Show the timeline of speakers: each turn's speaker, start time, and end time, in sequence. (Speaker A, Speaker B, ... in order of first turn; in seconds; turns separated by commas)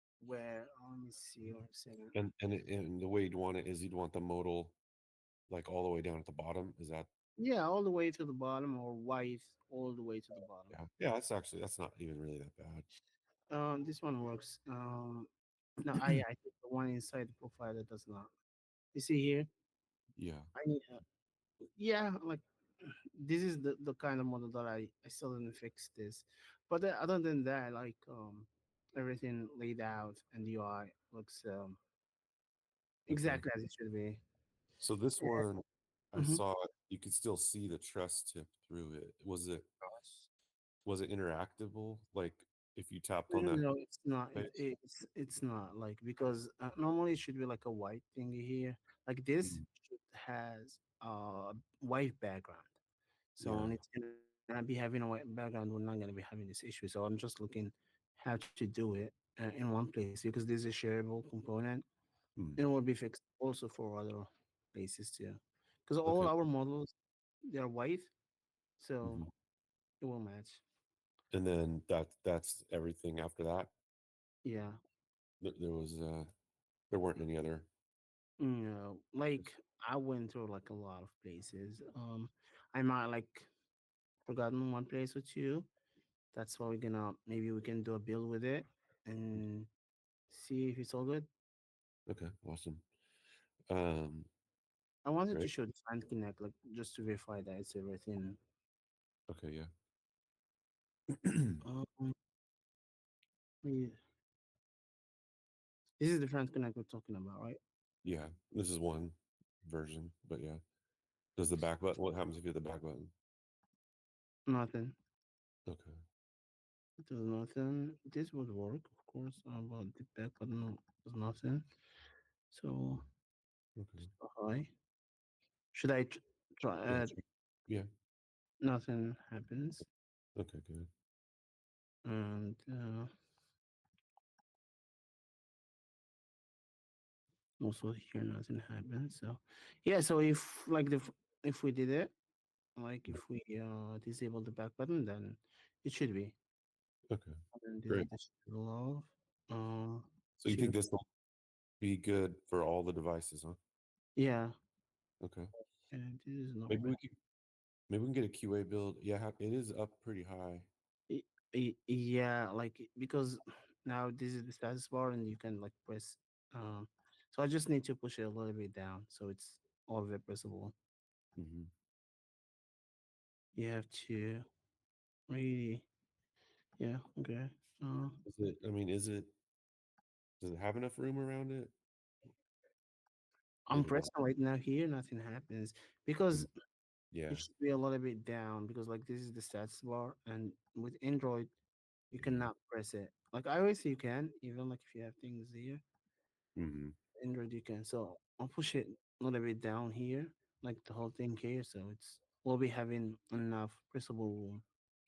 Speaker A: 0.2-2.1, Speaker B: 2.1-4.8, Speaker B: 5.5-7.1, Speaker A: 7.4-10.8, Speaker B: 10.7-12.8, Speaker A: 13.5-15.3, Speaker A: 15.8-18.3, Speaker B: 16.0-16.2, Speaker A: 18.9-19.5, Speaker B: 20.2-20.5, Speaker A: 20.5-21.0, Speaker A: 21.8-31.8, Speaker A: 33.1-34.2, Speaker B: 33.1-33.4, Speaker B: 34.8-39.7, Speaker A: 35.2-35.5, Speaker A: 36.1-36.4, Speaker B: 40.9-43.7, Speaker A: 43.3-52.7, Speaker B: 44.3-44.6, Speaker A: 53.3-61.8, Speaker B: 53.4-53.8, Speaker A: 62.6-66.9, Speaker B: 66.0-66.3, Speaker A: 67.5-68.1, Speaker A: 68.8-69.2, Speaker B: 69.0-69.3, Speaker A: 70.0-70.6, Speaker B: 71.3-73.7, Speaker A: 74.4-74.8, Speaker B: 75.4-76.3, Speaker B: 76.9-77.7, Speaker A: 78.4-83.5, Speaker A: 84.2-85.7, Speaker A: 86.3-89.7, Speaker A: 90.3-91.3, Speaker B: 92.1-92.8, Speaker B: 93.7-94.3, Speaker A: 95.0-98.4, Speaker B: 99.3-99.7, Speaker B: 101.2-101.6, Speaker A: 101.6-102.1, Speaker A: 103.6-104.0, Speaker A: 106.0-107.6, Speaker B: 108.0-110.6, Speaker B: 111.4-113.1, Speaker A: 114.5-114.9, Speaker B: 115.7-115.9, Speaker A: 117.0-121.6, Speaker A: 122.5-123.0, Speaker B: 123.8-124.1, Speaker A: 124.0-124.7, Speaker A: 125.7-127.2, Speaker B: 126.9-127.9, Speaker A: 128.6-129.9, Speaker B: 130.3-130.9, Speaker A: 132.0-133.1, Speaker A: 137.6-142.1, Speaker A: 142.8-146.4, Speaker B: 147.1-147.3, Speaker A: 147.5-150.8, Speaker B: 150.4-151.0, Speaker B: 151.8-153.6, Speaker A: 154.2-154.5, Speaker B: 155.2-155.5, Speaker A: 155.9-156.9, Speaker B: 156.7-157.2, Speaker B: 157.9-160.7, Speaker A: 161.1-170.7, Speaker B: 171.4-171.7, Speaker A: 173.5-174.4, Speaker A: 175.3-175.9, Speaker A: 176.8-178.2, Speaker B: 178.2-179.3, Speaker B: 180.4-181.7, Speaker A: 183.7-186.5, Speaker B: 183.7-184.1, Speaker B: 187.1-187.4, Speaker A: 187.3-191.5, Speaker A: 192.1-195.8, Speaker B: 192.2-192.5, Speaker B: 196.6-196.9, Speaker A: 197.2-204.6